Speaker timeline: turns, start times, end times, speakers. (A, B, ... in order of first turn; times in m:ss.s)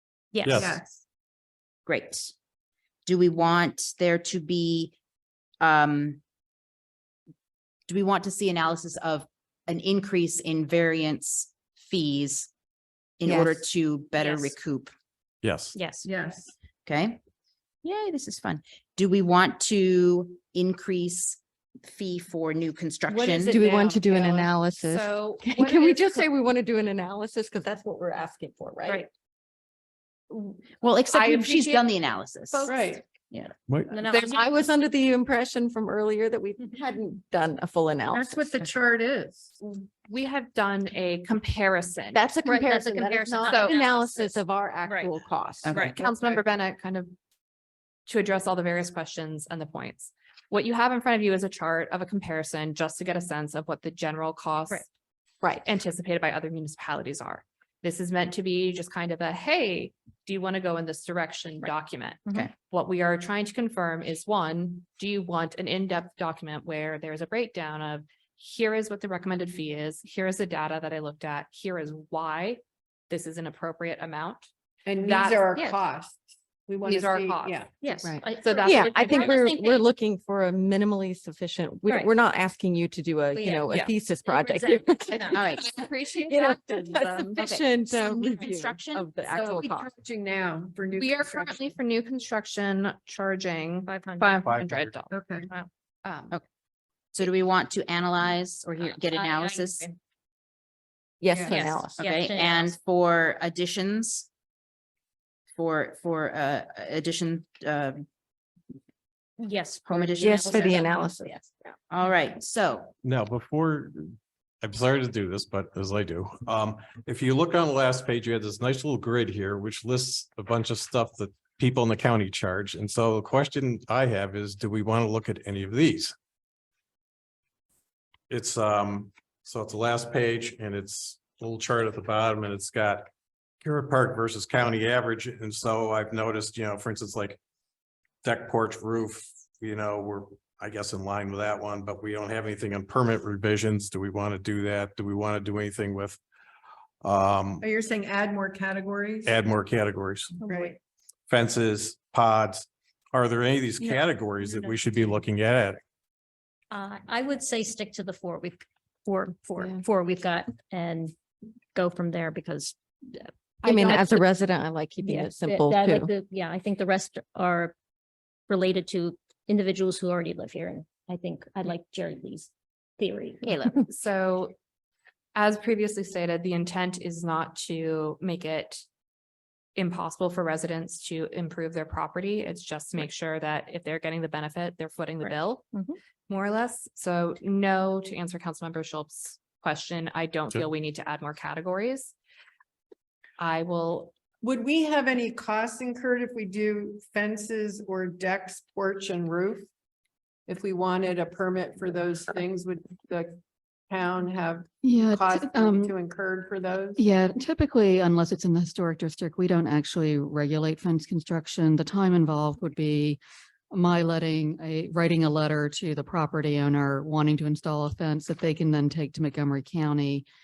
0:00.3-0:00.6 A
0:00.4-0:00.8 B
0:00.5-0:01.0 C
0:01.8-0:02.3 D
0:03.0-0:04.9 D
0:05.6-0:06.2 D
0:07.9-0:12.5 D
0:13.2-0:14.9 D
0:13.2-0:13.6 E
0:14.2-0:14.5 A
0:15.4-0:15.7 B
0:15.7-0:16.1 A
0:16.0-0:16.5 C
0:16.8-0:17.2 D
0:17.8-0:23.6 D
0:23.4-0:29.1 E
0:23.9-0:24.2 C
0:24.0-0:26.3 F
0:30.3-0:30.6 F
0:30.8-0:33.5 D
0:31.1-0:31.9 F
0:32.5-0:32.8 F
0:32.7-0:33.0 C
0:33.7-0:33.9 B
0:33.9-0:34.5 A
0:34.0-0:38.3 E
0:38.1-0:39.5 C
0:39.6-0:42.4 F
0:42.1-0:45.8 E
0:42.4-0:43.8 A
0:43.1-0:44.4 F
0:44.8-0:45.1 A
0:45.6-0:46.0 D
0:45.7-0:47.1 F
0:45.9-0:46.4 C
0:48.1-0:54.9 F
0:55.5-1:14.5 F
1:14.8-1:17.7 C
1:15.0-1:15.6 F
1:16.8-1:17.6 F
1:17.8-1:19.9 A
1:18.0-1:25.2 E
1:18.4-1:19.2 F
1:21.8-1:22.1 A
1:23.3-1:25.6 A
1:25.3-1:25.6 D
1:25.3-1:27.5 F
1:26.2-1:29.9 E
1:27.4-1:29.1 D
1:29.3-1:31.6 C
1:31.0-1:35.1 F
1:33.8-1:34.4 A
1:34.4-1:35.0 B
1:35.1-1:35.4 C
1:36.0-1:36.3 F
1:37.1-1:39.9 D
1:38.8-1:40.0 A
1:41.2-1:42.0 E
1:41.3-1:41.6 C
1:41.5-1:42.8 A
1:41.9-1:44.3 D
1:45.6-1:48.0 D
1:49.4-1:51.7 A
1:49.8-1:50.8 D
1:50.2-1:51.2 E
1:51.9-1:52.9 D
1:53.0-2:06.1 B
2:08.3-2:13.1 B
2:13.6-2:17.4 B
2:18.2-2:26.2 B
2:27.0-2:27.6 B
2:27.6-2:29.4 C
2:29.2-2:30.4 B
2:30.4-2:30.8 C
2:30.4-2:30.7 A
2:31.3-2:35.8 B
2:36.7-2:41.1 A
2:41.7-2:44.2 A
2:43.6-2:46.1 E
2:45.0-2:47.7 A
2:48.5-2:53.8 A
2:53.4-2:53.8 D
2:53.8-2:54.5 F
2:55.3-2:58.8 F
2:59.8-3:05.7 F
3:06.3-3:12.1 F
3:13.4-3:14.1 F
3:14.4-3:19.7 C
3:20.5-3:27.0 C
3:24.8-3:25.9 G
3:27.0-3:33.2 G
3:33.7-3:40.2 G